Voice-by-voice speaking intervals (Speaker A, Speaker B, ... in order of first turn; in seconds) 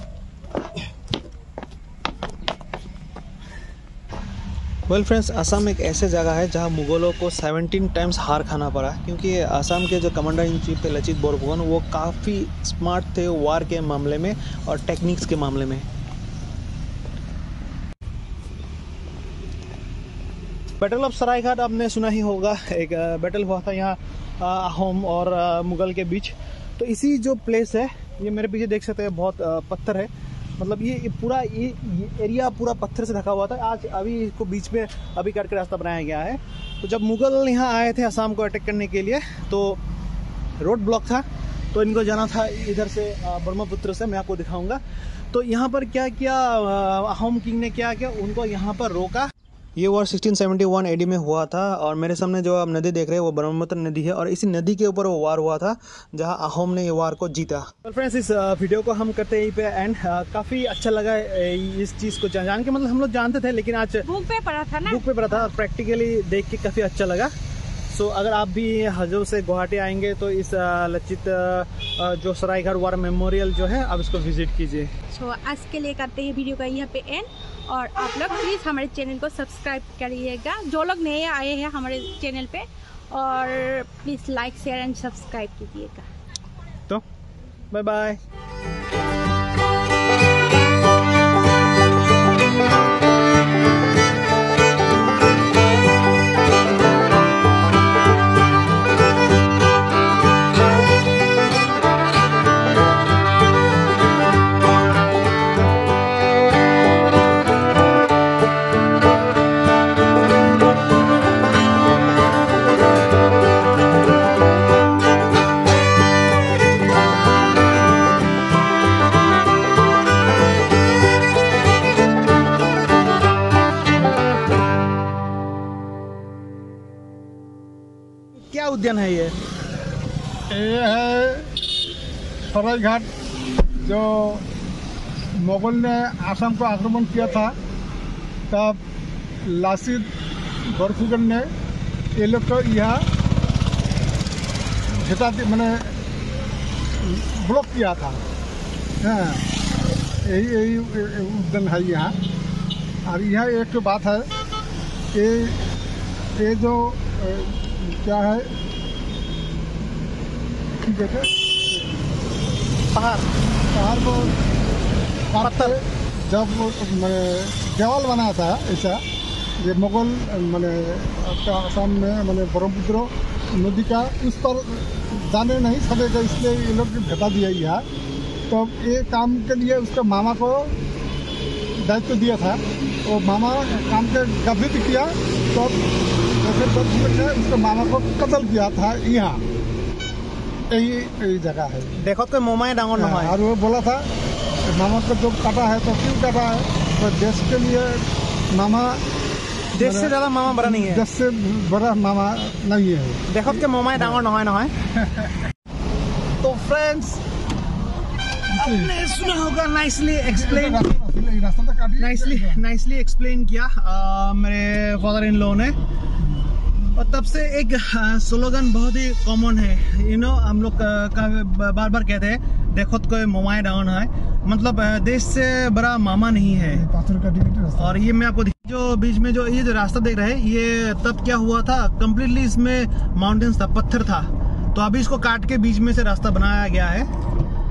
Speaker A: 4.9-15.9, 20.8-39.8, 40.6-44.8, 45.3-64.1, 64.9-67.3, 67.9-74.9, 87.7-88.2, 128.5-129.4, 162.9-163.3, 165.4-165.8, 192.0-193.4, 199.7-201.1, 203.3-204.7, 206.6-206.8, 208.5-210.9, 212.0-215.8, 216.9-226.8, 227.8-237.1
Speaker B: 64.0-65.3, 75.1-86.1
Speaker C: 130.5-131.5, 132.5-133.1, 133.8-134.4, 135.4-137.6, 138.5-138.8, 139.4-140.1, 140.7-141.5, 142.2-143.1, 145.0-146.0, 147.0-148.2, 149.0-149.5, 150.2-152.2, 153.1-154.3, 155.1-155.7, 156.4-158.5, 160.8-161.8, 163.7-164.3, 165.3-169.0, 169.6-177.9, 178.5-180.8, 181.8-185.8, 186.4-189.4, 190.7-191.9, 193.0-194.1, 194.7-199.0, 199.8-204.2, 205.0-205.4, 206.4-207.1, 208.6-208.9, 210.3-212.6, 226.7-228.0